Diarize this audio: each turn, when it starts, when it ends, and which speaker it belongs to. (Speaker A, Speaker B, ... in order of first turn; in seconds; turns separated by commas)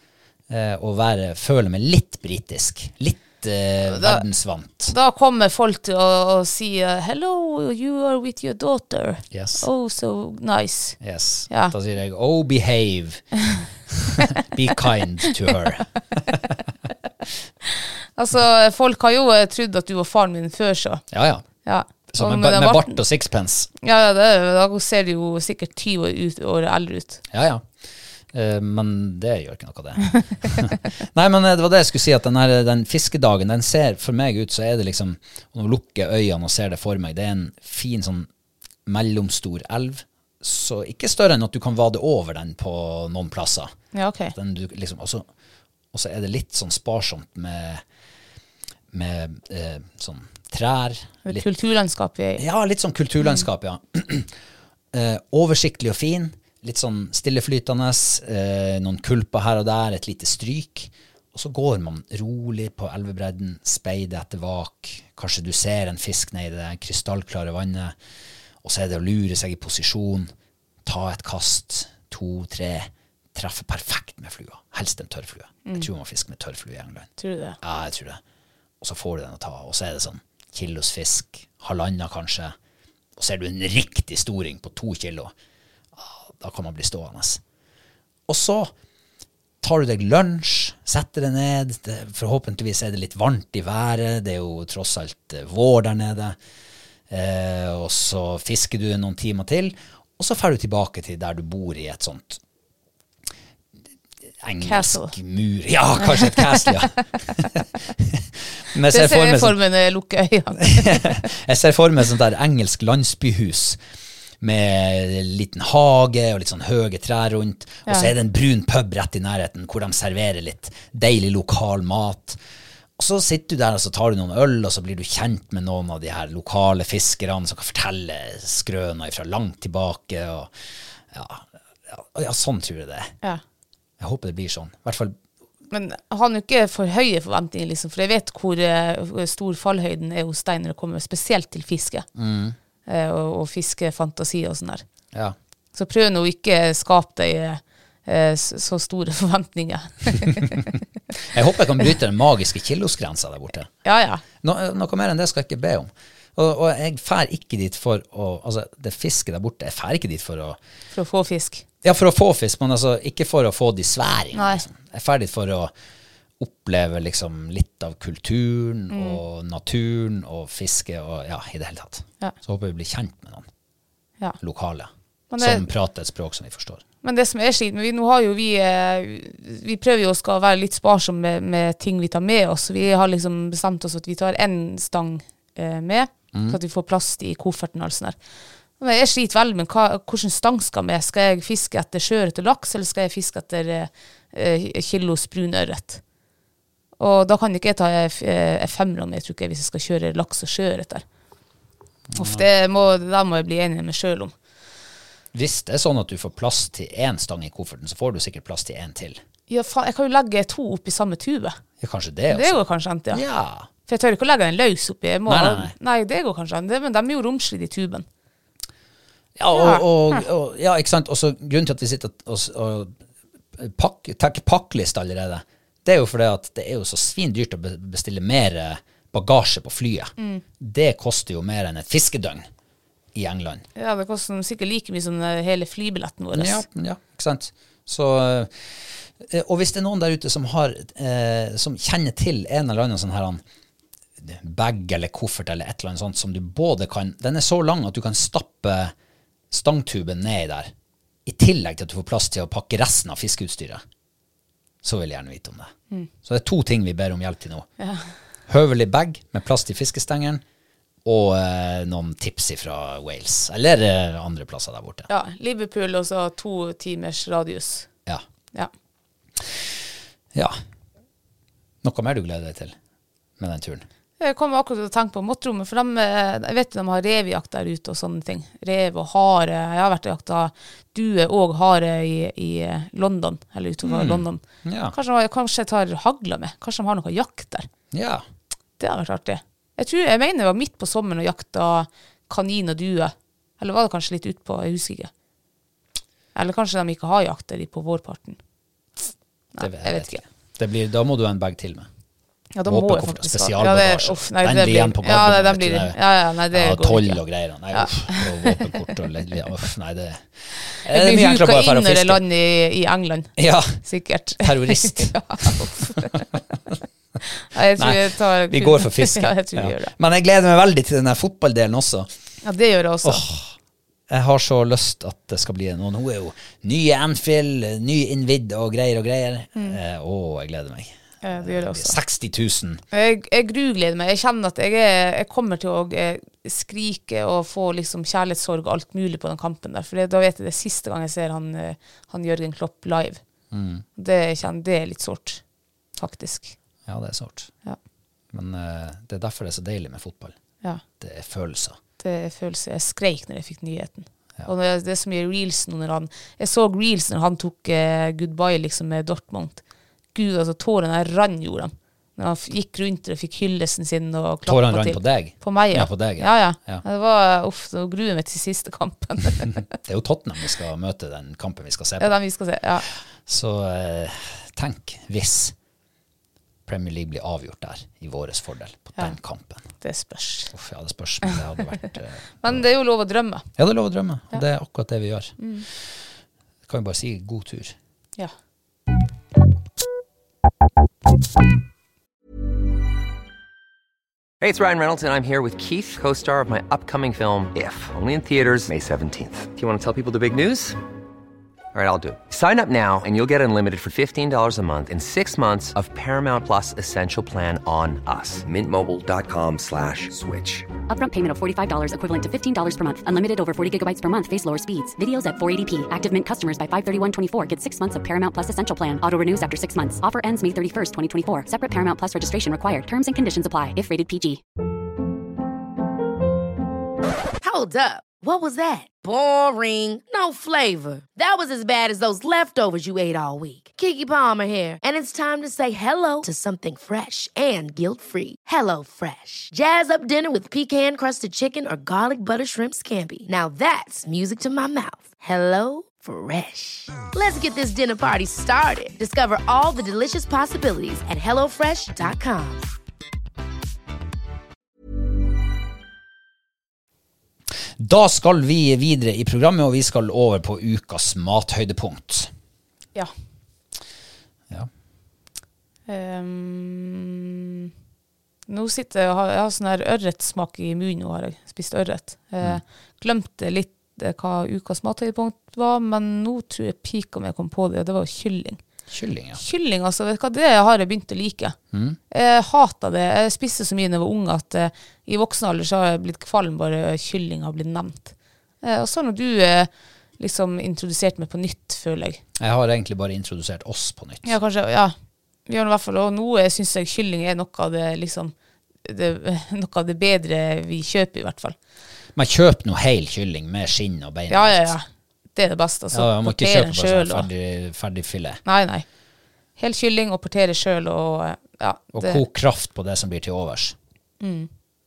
Speaker A: 0.5-5.0, Speaker B: 3.9-4.2, Speaker B: 4.9-11.0, Speaker A: 9.3-9.7, Speaker A: 11.0-16.5, Speaker B: 11.5-11.7, Speaker B: 18.2-21.0, Speaker A: 21.1-23.7, Speaker B: 21.6-23.0, Speaker B: 23.8-27.2, Speaker A: 27.3-27.7, Speaker A: 28.3-38.3, Speaker A: 38.9-43.7, Speaker B: 43.9-44.3, Speaker A: 44.3-45.3, Speaker A: 45.9-47.8, Speaker A: 48.9-51.5, Speaker B: 51.2-52.4, Speaker A: 52.4-54.3, Speaker A: 54.9-68.0, Speaker A: 68.6-70.3, Speaker A: 70.8-78.2, Speaker B: 77.2-77.6, Speaker A: 78.8-82.5, Speaker A: 83.2-85.3, Speaker A: 86.0-87.4, Speaker A: 88.3-88.7, Speaker A: 89.6-96.4, Speaker A: 97.1-102.4, Speaker A: 104.4-109.6, Speaker B: 104.6-105.1, Speaker B: 106.0-106.9, Speaker B: 108.9-111.3, Speaker A: 110.7-113.8, Speaker A: 114.4-122.4, Speaker A: 123.0-130.5, Speaker A: 131.1-133.2, Speaker A: 134.0-135.2, Speaker B: 135.7-142.1, Speaker A: 142.2-142.6, Speaker B: 142.9-144.8, Speaker B: 145.7-150.7, Speaker A: 151.2-153.7, Speaker B: 153.8-154.2, Speaker A: 154.4-160.6, Speaker B: 160.9-161.7, Speaker A: 161.8-165.7, Speaker B: 164.3-164.6, Speaker A: 166.4-173.5, Speaker B: 168.9-169.2, Speaker A: 174.4-176.8, Speaker B: 175.3-175.7, Speaker B: 177.0-188.2, Speaker A: 186.3-186.6, Speaker B: 188.8-196.0, Speaker B: 197.0-201.1, Speaker A: 202.1-202.4, Speaker B: 202.2-204.3, Speaker A: 205.3-209.2, Speaker B: 209.5-211.6, Speaker A: 211.8-213.7, Speaker B: 212.3-213.2, Speaker B: 213.9-218.1, Speaker A: 215.3-215.8, Speaker A: 219.4-223.0, Speaker B: 219.5-220.2, Speaker A: 223.6-232.5, Speaker A: 233.1-233.7, Speaker B: 233.8-236.7, Speaker A: 236.3-243.4, Speaker A: 244.2-248.9, Speaker A: 249.5-250.7, Speaker A: 251.2-253.8, Speaker A: 254.8-257.7, Speaker B: 257.8-258.1, Speaker A: 258.5-260.4, Speaker A: 261.1-265.1, Speaker B: 265.1-267.9, Speaker A: 269.4-269.7, Speaker A: 271.8-272.8, Speaker A: 273.4-273.8, Speaker B: 274.2-287.7, Speaker A: 283.8-284.9, Speaker A: 287.9-288.3, Speaker B: 288.8-295.1, Speaker B: 296.4-298.4, Speaker B: 299.6-300.2, Speaker A: 299.6-301.9, Speaker B: 302.6-307.2, Speaker A: 302.6-312.2, Speaker B: 307.7-308.8, Speaker B: 310.9-316.3, Speaker A: 313.4-313.8, Speaker A: 314.4-316.2, Speaker B: 317.4-319.9, Speaker A: 317.7-322.1, Speaker B: 322.4-323.2, Speaker A: 323.0-323.6, Speaker A: 324.1-332.8, Speaker B: 331.2-332.0, Speaker B: 332.9-343.2, Speaker A: 343.5-343.9, Speaker B: 344.0-345.4, Speaker B: 346.0-346.6, Speaker A: 346.9-347.5, Speaker A: 348.3-350.4, Speaker A: 351.0-351.8, Speaker B: 352.0-359.6, Speaker B: 360.1-369.6, Speaker A: 364.5-366.9, Speaker A: 369.6-372.2, Speaker B: 372.0-372.9, Speaker A: 372.8-375.6, Speaker A: 376.7-379.7, Speaker B: 379.8-380.5, Speaker A: 380.5-382.7, Speaker B: 382.4-383.5, Speaker A: 383.6-386.1, Speaker B: 385.4-385.7, Speaker A: 386.7-387.8, Speaker C: 394.4-400.8, Speaker C: 401.7-410.7, Speaker D: 410.9-424.4, Speaker E: 427.4-452.7, Speaker A: 457.8-462.3, Speaker B: 465.9-467.7, Speaker B: 468.5-478.6, Speaker A: 478.9-479.4, Speaker B: 479.4-481.6, Speaker A: 481.7-482.0, Speaker B: 482.1-492.2, Speaker A: 492.4-494.3, Speaker B: 494.2-494.9, Speaker B: 495.5-501.6, Speaker A: 502.1-504.8, Speaker B: 504.3-507.3, Speaker A: 505.9-508.4, Speaker B: 508.4-508.9, Speaker B: 509.6-512.2, Speaker A: 511.9-513.8, Speaker B: 514.2-514.5